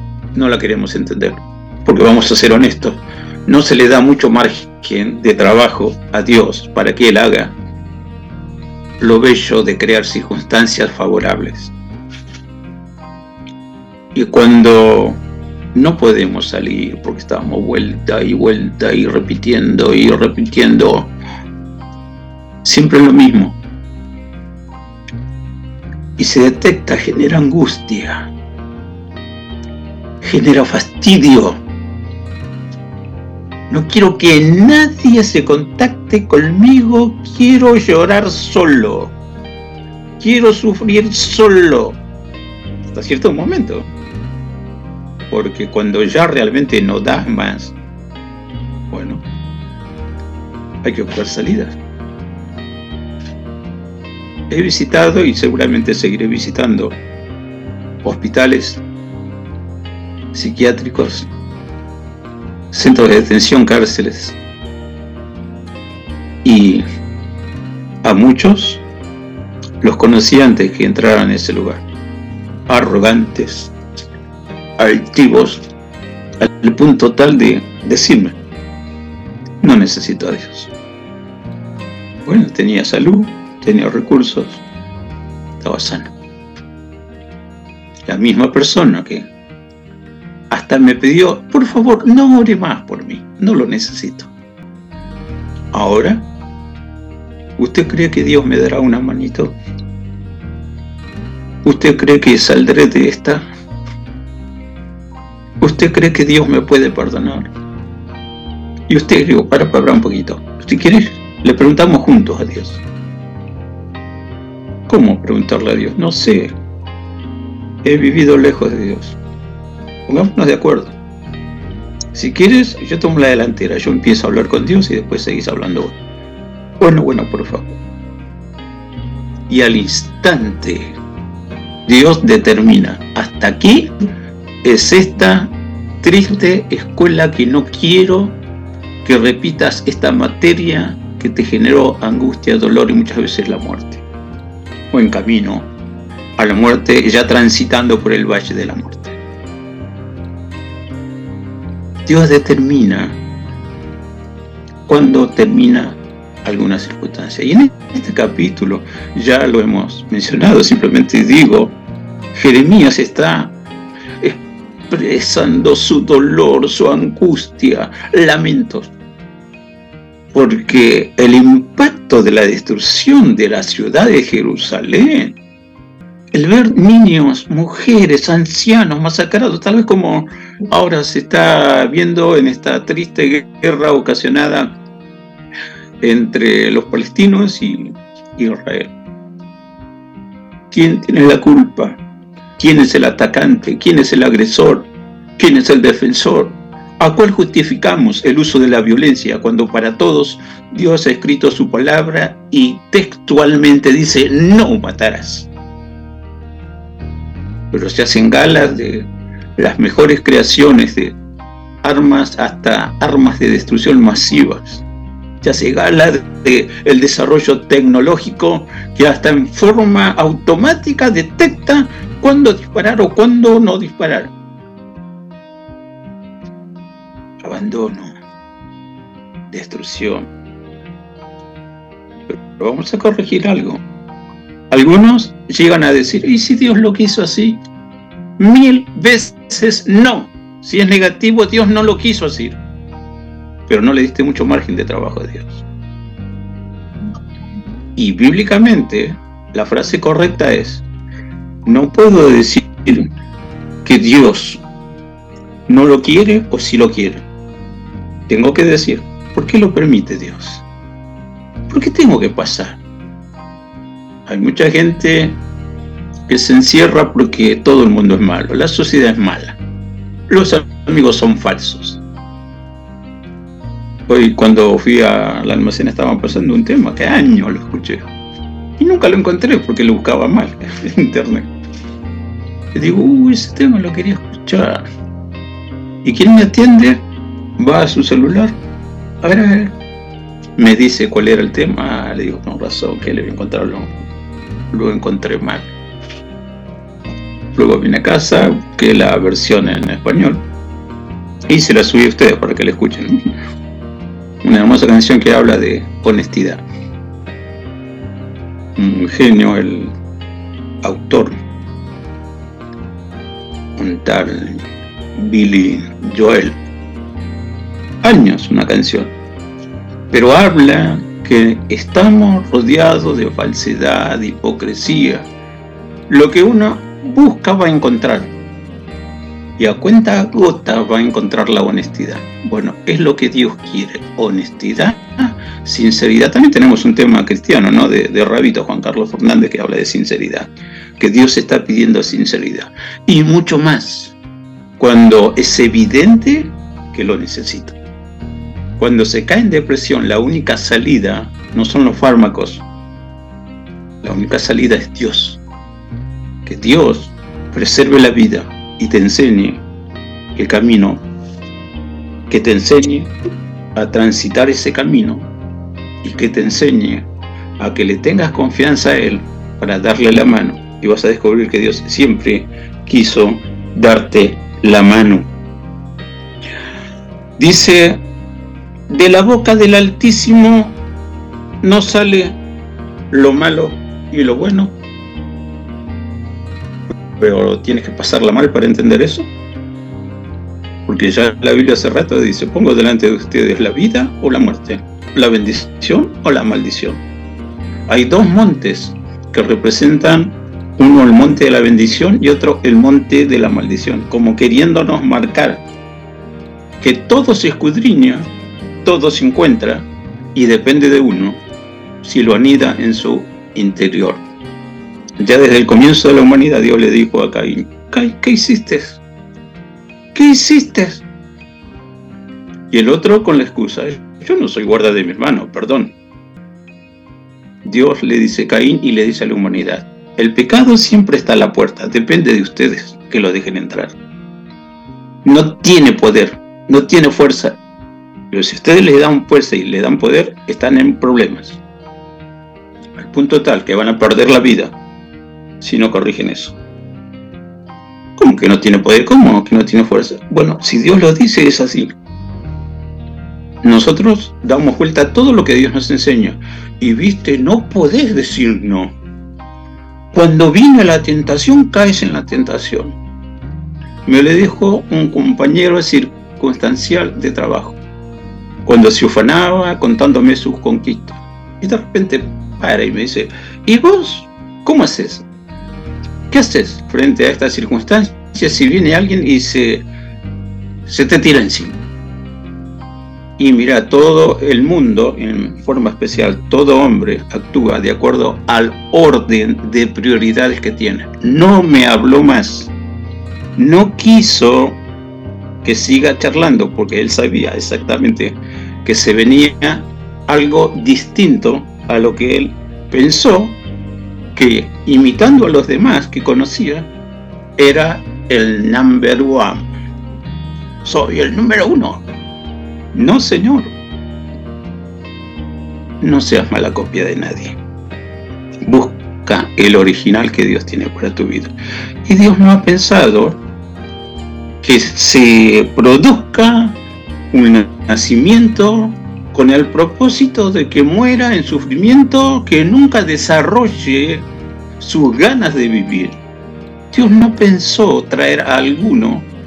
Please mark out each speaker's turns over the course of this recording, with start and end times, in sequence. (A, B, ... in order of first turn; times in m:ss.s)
0:00.3-0:07.6 A
0:09.0-0:11.7 A
0:14.2-0:15.2 A
0:15.7-0:21.1 A
0:22.6-0:23.6 A
0:26.2-0:28.3 A
0:30.2-0:31.6 A
0:33.7-0:39.2 A
0:40.2-0:42.0 A
0:42.9-0:43.9 A
0:45.3-0:47.8 A
0:48.9-0:49.2 A
0:50.8-0:51.8 A
0:54.5-0:57.0 A
0:58.0-0:58.8 A
1:00.3-1:01.3 A
1:02.7-1:04.4 A
1:06.4-1:06.8 A
1:08.0-1:08.8 A
1:09.8-1:11.8 A
1:12.7-1:13.7 A
1:14.8-1:15.6 A
1:16.4-1:18.4 A
1:19.6-1:20.7 A
1:22.3-1:24.6 A
1:25.6-1:26.1 A
1:28.1-1:29.3 A
1:30.5-1:34.3 A
1:35.7-1:36.2 A
1:37.6-1:39.6 A
1:41.6-1:43.4 A
1:45.6-1:47.5 A
1:48.9-1:52.8 A
1:54.9-1:56.6 A
1:57.8-1:59.2 A
2:00.1-2:01.0 A
2:02.1-2:06.0 A
2:06.8-2:07.8 A
2:09.5-2:11.0 A
2:11.9-2:14.0 A
2:14.6-2:18.4 A
2:19.0-2:24.0 A
2:24.9-2:25.7 A
2:26.4-2:29.2 A
2:32.1-2:33.2 A
2:34.9-2:41.8 A
2:42.4-2:43.6 A
2:44.9-2:48.9 A
2:50.3-2:55.4 A
2:56.3-3:04.8 A
3:06.0-3:08.9 A
3:10.7-3:12.0 A
3:12.6-3:25.5 A
3:27.7-3:31.2 A
3:31.8-3:34.8 A
3:35.4-3:44.3 A
3:47.4-3:48.2 A
3:49.5-3:50.3 A
3:52.3-3:53.8 A
3:54.7-3:57.6 A
3:58.4-4:02.6 A
4:03.7-4:05.6 A
4:08.0-4:10.8 A
4:11.7-4:13.1 A
4:13.8-4:14.6 A
4:15.7-4:17.2 A
4:18.3-4:20.6 A
4:21.7-4:22.8 A
4:24.3-4:25.4 A
4:26.3-4:29.6 A
4:30.3-4:32.0 A
4:34.1-4:38.1 A
4:38.8-4:41.5 A
4:42.7-4:44.8 A
4:46.0-4:47.0 A
4:47.6-4:48.6 A
4:49.2-4:49.8 A
4:50.6-4:53.9 A
4:54.7-4:55.7 A
4:57.6-5:00.4 A
5:01.5-5:03.3 A
5:04.4-5:06.6 A
5:08.8-5:10.0 A
5:10.8-5:11.4 A
5:13.8-5:14.6 A
5:15.2-5:16.6 A
5:18.0-5:19.1 A
5:20.1-5:25.3 A
5:26.1-5:28.3 A
5:29.6-5:44.2 A
5:44.8-5:47.8 A
5:48.8-5:52.6 A
5:54.0-5:55.4 A
5:56.5-5:59.6 A
6:00.4-6:01.0 A
6:02.3-6:03.1 A
6:03.8-6:05.3 A
6:06.0-6:07.1 A
6:07.6-6:15.3 A
6:17.4-6:18.0 A
6:18.9-6:20.8 A
6:21.6-6:22.4 A
6:23.1-6:24.8 A
6:27.2-6:29.3 A
6:30.9-6:37.0 A
6:37.9-6:45.6 A
6:46.8-6:48.3 A
6:48.8-6:51.4 A
6:52.0-6:54.2 A
6:55.2-6:59.0 A
7:00.2-7:01.0 A
7:02.7-7:05.9 A
7:07.6-7:14.0 A
7:15.2-7:17.6 A
7:18.3-7:21.6 A
7:23.0-7:24.8 A
7:25.6-7:26.6 A
7:28.2-7:31.9 A
7:33.6-7:38.9 A
7:40.1-7:43.0 A
7:44.1-7:47.8 A
7:48.7-7:55.2 A
7:56.3-7:59.9 A
8:00.9-8:01.8 A
8:03.4-8:12.7 A
8:13.6-8:14.8 A
8:15.6-8:23.6 A
8:24.4-8:26.9 A
8:27.6-8:29.7 A
8:30.8-8:32.0 A
8:32.9-8:33.8 A
8:36.0-8:37.6 A
8:38.6-8:41.5 A
8:42.0-8:43.4 A
8:44.6-8:46.8 A
8:47.3-8:54.3 A
8:54.8-8:56.2 A
8:56.9-8:59.3 A